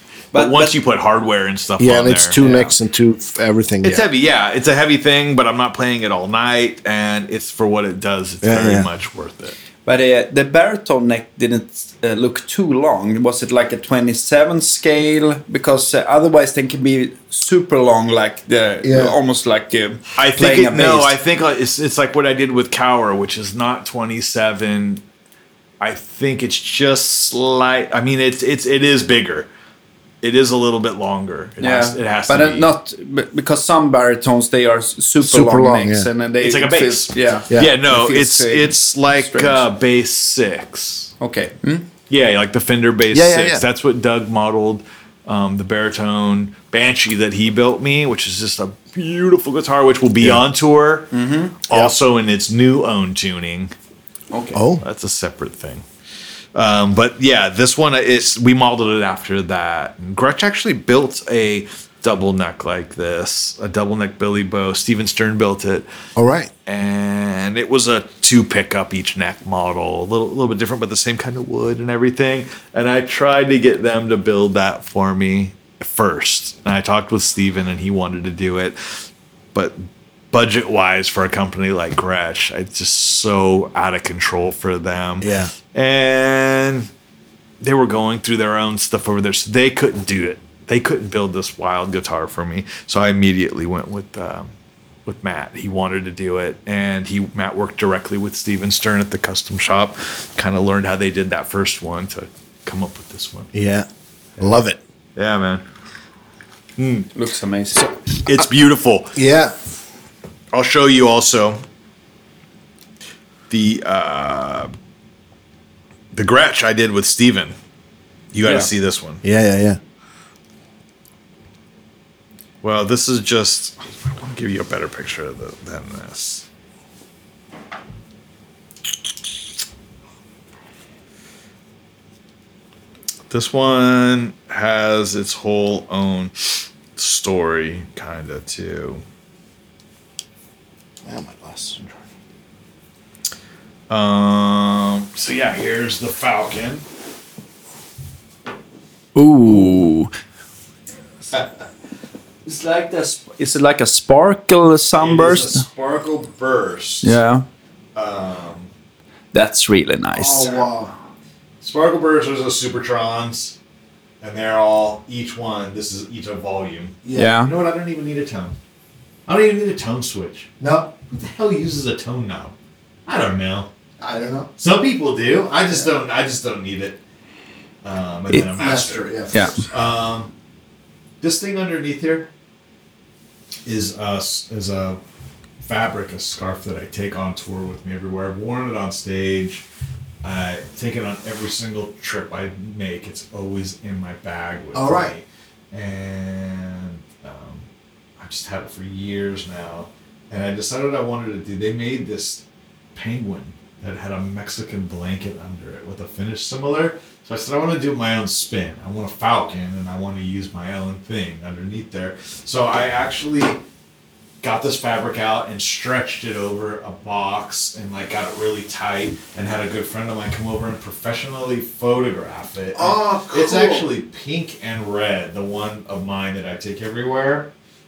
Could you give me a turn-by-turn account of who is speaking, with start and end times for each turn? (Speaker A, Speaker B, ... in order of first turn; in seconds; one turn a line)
Speaker A: 0.3-0.7
Speaker B: 0.3-2.7
Speaker C: 1.8-4.0
Speaker B: 3.8-9.6
Speaker C: 8.4-8.9
Speaker A: 9.8-21.1
Speaker C: 18.8-19.1
Speaker B: 20.1-25.0
Speaker B: 25.8-29.5
Speaker B: 30.2-32.6
Speaker A: 31.6-39.6
Speaker C: 35.2-36.1
Speaker B: 36.4-41.1
Speaker A: 41.2-41.9
Speaker B: 42.1-51.1
Speaker C: 43.1-43.6
Speaker A: 51.1-51.6
Speaker B: 51.6-53.7
Speaker A: 54.3-54.6
Speaker C: 54.5-54.8
Speaker B: 54.7-55.8
Speaker B: 56.5-65.9
Speaker C: 66.2-66.5
Speaker B: 66.7-86.9
Speaker C: 85.2-85.5
Speaker B: 87.6-94.5
Speaker B: 95.0-103.5
Speaker C: 103.5-104.8
Speaker B: 105.2-105.6
Speaker B: 106.8-107.1
Speaker A: 107.1-108.0
Speaker B: 108.1-109.2
Speaker C: 109.1-109.5
Speaker B: 110.5-111.6
Speaker B: 113.5-114.7
Speaker B: 116.1-117.5
Speaker B: 118.3-119.2
Speaker A: 118.4-118.7
Speaker C: 119.2-119.8
Speaker B: 122.6-126.5
Speaker B: 133.3-139.0
Speaker C: 141.0-141.8
Speaker B: 143.9-146.8
Speaker A: 149.1-150.1
Speaker A: 152.4-155.7
Speaker B: 155.0-157.2
Speaker A: 157.0-157.4
Speaker B: 157.9-158.7
Speaker A: 159.3-160.7
Speaker C: 160.1-160.9
Speaker B: 161.6-163.6
Speaker B: 164.2-168.6
Speaker C: 167.0-167.3
Speaker A: 167.1-167.5
Speaker B: 169.3-170.5
Speaker C: 170.6-170.9
Speaker B: 171.1-172.6
Speaker B: 173.1-173.7
Speaker C: 174.0-174.5
Speaker B: 174.6-177.0
Speaker B: 177.8-180.3
Speaker C: 178.6-179.7
Speaker B: 181.2-182.3
Speaker B: 183.7-185.0
Speaker B: 185.6-189.6
Speaker B: 190.2-197.7
Speaker C: 194.7-195.1
Speaker B: 198.2-202.4
Speaker B: 202.9-213.6
Speaker B: 214.4-227.5
Speaker C: 222.7-223.9